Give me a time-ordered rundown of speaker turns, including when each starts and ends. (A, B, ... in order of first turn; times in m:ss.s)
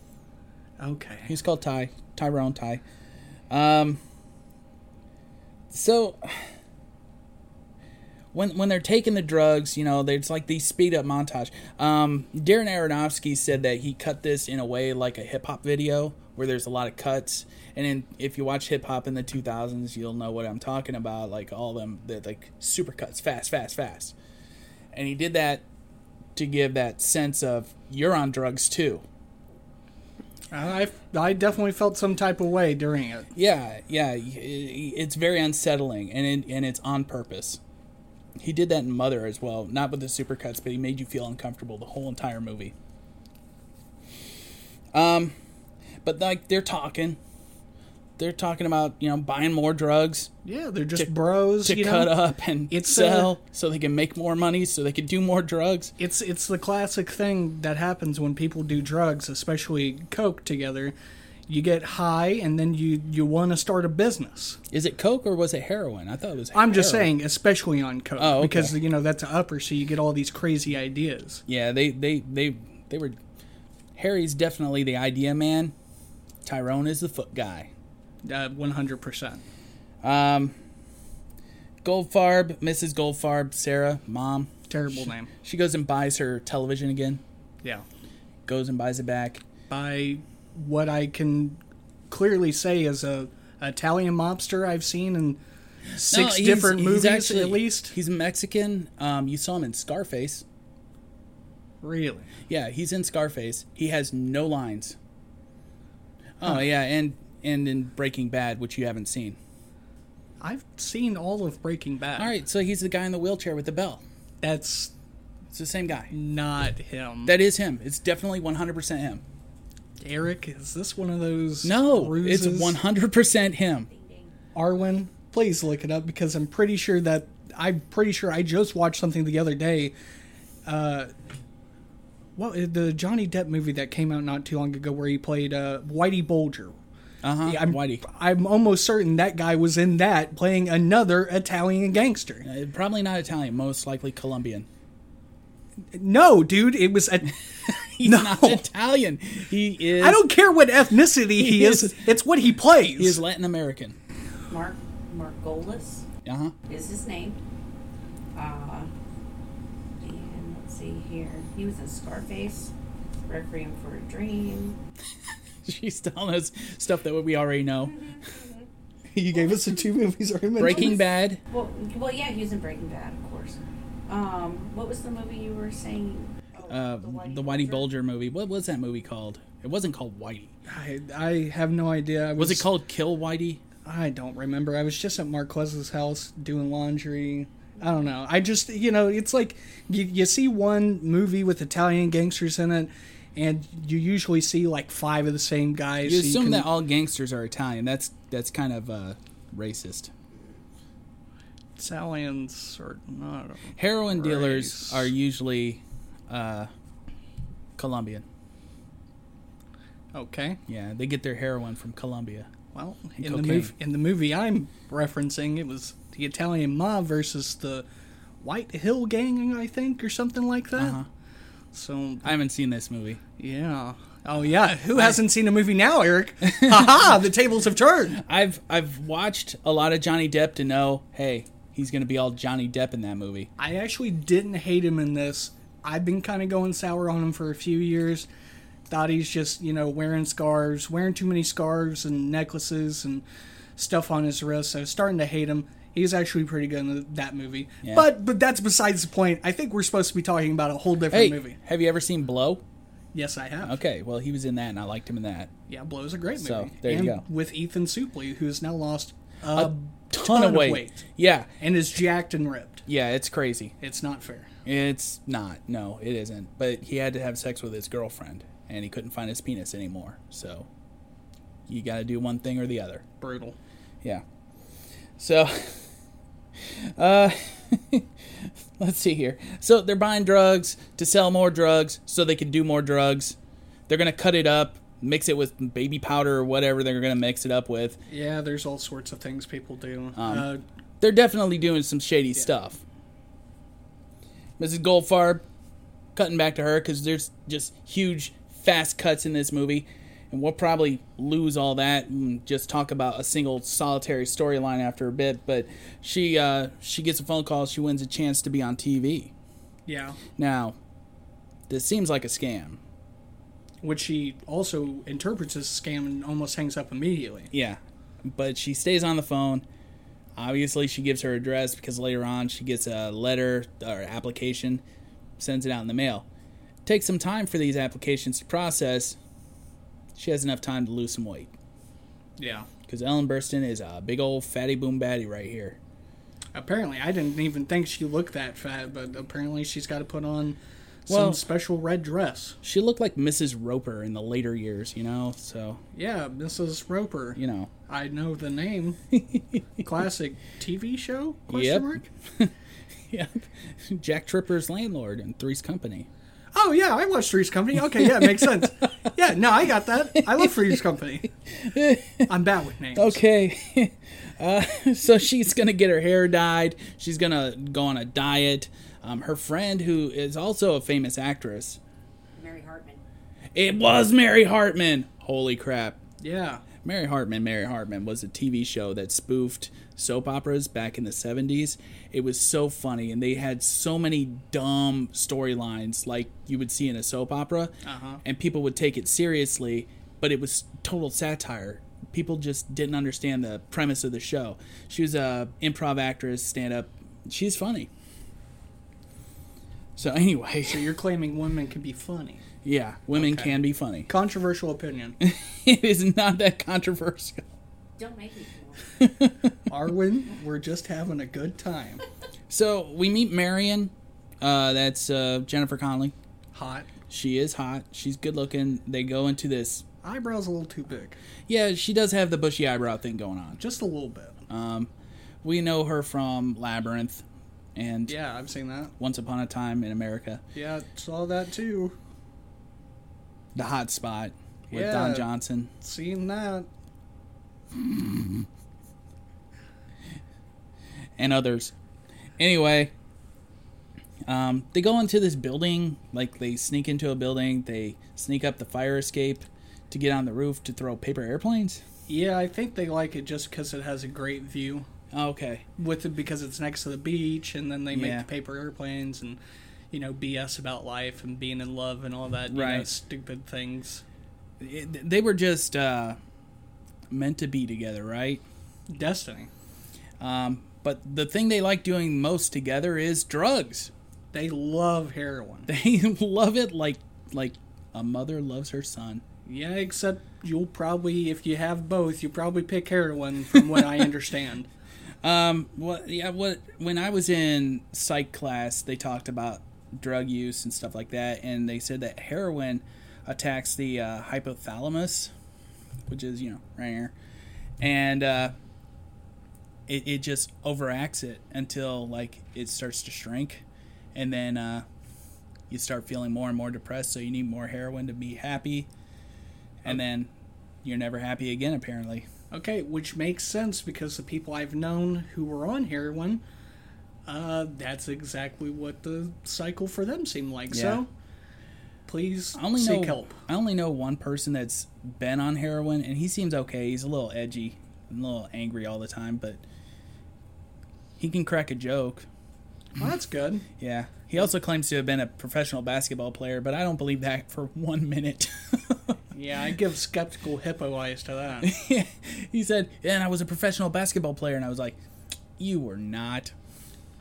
0:00.8-0:01.3 A
0:01.3-0:02.8 B
0:03.5-0:04.0 B
0:05.7-0:06.5 B
0:08.3-0:24.1 B
0:24.9-0:25.6 B
0:26.4-0:29.0 B
0:30.5-0:33.3 A
0:33.3-0:37.6 B
0:38.4-0:42.7 B
0:44.9-0:45.4 B
0:46.0-0:47.2 B
0:48.2-0:50.3 B
0:50.4-0:52.1 A
0:51.0-0:55.9 B
0:52.7-0:53.3 A
0:56.0-1:00.9 A
1:01.5-1:04.6 A
1:04.7-1:07.1 B
1:06.5-1:11.4 A
1:08.2-1:08.8 B
1:11.5-1:13.2 B
1:13.9-1:15.7 B
1:16.4-1:17.7 B
1:18.2-1:19.4 A
1:20.0-1:20.5 B
1:21.8-1:24.5 B
1:24.7-1:25.3 A
1:25.3-1:27.2 B
1:28.4-1:29.4 B
1:29.7-1:35.4 A
1:35.9-1:37.9 A
1:36.0-1:40.4 B
1:41.8-1:42.3 A
1:42.5-1:45.0 B
1:46.4-1:49.4 B
1:50.4-1:52.3 A
1:52.2-1:54.0 B
1:54.4-1:54.9 A
1:55.5-1:56.1 B
1:56.1-1:57.3 A
1:57.2-1:59.2 B
2:00.0-2:02.8 A
2:01.6-2:03.9 B
2:03.9-2:04.3 C
2:04.5-2:09.9 A
2:10.6-2:11.1 A
2:12.4-2:16.8 A
2:17.2-2:18.0 B
2:17.4-2:22.4 A
2:22.4-2:24.7 B
2:25.9-2:28.7 A
2:27.6-2:30.2 B
2:30.0-2:33.2 A
2:31.4-2:32.0 B
2:32.9-2:34.0 B
2:34.5-2:36.0 C
2:36.2-2:36.6 B
2:36.7-2:37.4 C
2:38.3-2:38.9 C
2:40.0-2:42.7 C
2:43.3-2:44.8 C
2:45.6-2:48.0 B
2:47.9-2:48.7 C
2:49.1-2:51.0 A
2:50.6-2:51.4 B
2:50.6-2:51.0 C
2:51.5-2:57.9 C
2:56.7-3:00.5 B
3:00.7-3:02.7 A
3:02.4-3:03.6 B
3:03.8-3:16.7 A
3:16.0-3:20.1 B
3:21.8-3:25.1 A
3:23.8-3:26.7 B
3:27.8-3:28.2 B
3:30.1-3:30.6 A
3:30.7-3:32.5 B
3:32.7-3:37.8 A
3:33.2-3:33.7 B
3:38.4-3:41.0 A
3:40.8-3:41.0 B
3:41.7-3:42.3 A
3:42.2-3:43.2 B
3:43.4-3:48.2 A
3:44.9-3:45.2 B
3:46.4-3:47.1 B
3:48.1-3:53.5 B
3:53.6-3:58.3 A
3:58.9-4:03.2 A
4:03.8-4:11.6 A
4:07.8-4:08.1 B
4:11.1-4:12.6 B
4:13.1-4:13.8 A
4:13.6-4:15.5 B
4:15.7-4:21.0 A
4:16.4-4:17.2 B
4:19.5-4:21.5 B
4:21.6-4:22.8 A
4:22.9-4:23.7 B
4:23.8-4:24.5 A
4:24.6-4:30.7 B
4:31.7-4:33.0 B
4:33.2-4:33.6 A
4:35.2-4:35.9 B
4:36.6-4:43.4 B
4:43.9-4:48.0 B
4:48.1-4:50.6 A
4:50.2-4:50.5 B
4:51.0-4:52.8 B
4:54.6-4:55.4 B
4:56.1-5:09.3 B
5:09.8-5:10.2 A
5:10.4-5:10.8 B
5:11.7-5:12.8 B
5:13.8-5:17.5 A
5:17.5-5:19.6 B
5:20.4-5:24.8 B
5:25.4-5:26.2 B
5:26.8-5:29.2 B
5:30.2-5:31.5 B
5:32.4-5:32.7 A
5:32.9-5:35.8 B
5:36.5-5:42.6 A
5:41.1-5:41.4 B
5:42.6-5:45.8 B
5:45.9-5:49.0 A
5:47.4-5:47.7 B
5:49.1-5:49.6 B
5:49.8-5:52.0 A
5:51.5-5:52.5 B
5:53.1-5:56.1 B
5:56.5-6:01.3 A
5:57.9-5:58.6 B
6:00.3-6:00.7 B
6:01.5-6:02.3 B
6:02.3-6:03.2 A
6:03.0-6:11.8 B
6:12.3-6:13.0 C
6:13.5-6:16.0 B
6:16.2-6:16.6 A
6:16.8-6:37.9 B
6:27.8-6:28.2 A
6:40.0-6:40.9 B
6:40.6-6:42.4 A
6:42.6-6:44.1 B
6:43.1-6:43.6 A
6:44.1-6:45.2 A
6:45.2-6:47.5 B
6:48.0-6:48.9 C
6:49.0-6:49.5 B
6:49.7-6:52.0 A
6:52.5-6:56.1 B
6:56.5-6:56.9 A
6:57.1-6:59.8 B
7:00.0-7:01.2 A
7:01.5-7:03.6 B
7:03.6-7:04.4 A
7:04.5-7:04.9 B
7:05.4-7:08.1 B
7:08.1-7:08.9 A
7:09.0-7:10.4 B
7:10.5-7:12.0 A
7:13.5-7:15.7 B
7:14.7-7:15.3 A
7:15.8-7:16.7 A
7:21.2-7:21.7 B
7:22.4-7:22.9 B
7:24.3-7:31.8 B
7:32.1-7:34.9 A
7:35.1-7:35.6 B
7:35.8-7:39.4 A
7:37.9-7:38.3 B
7:39.9-7:44.0 A
7:42.5-7:42.9 B
7:44.6-7:46.2 B
7:47.1-7:48.4 B
7:48.9-7:49.5 A
7:50.2-7:53.9 B
7:54.3-7:55.7 A
7:55.7-7:59.2 B
7:59.4-8:04.7 A
8:05.2-8:15.3 B
8:16.1-8:17.1 B
8:17.8-8:18.5 B
8:19.9-8:24.8 B
8:25.7-8:28.9 B
8:29.8-8:30.3 B
8:30.8-8:32.3 B
8:32.5-8:36.4 A
8:37.3-8:41.1 A
8:40.7-8:41.0 B
8:42.1-8:43.4 A
8:42.5-8:49.6 B
8:51.2-8:52.3 B
8:52.9-8:53.7 A
8:53.8-8:59.2 B
8:59.3-9:01.7 A
9:01.6-9:05.0 B
9:05.6-9:06.5 B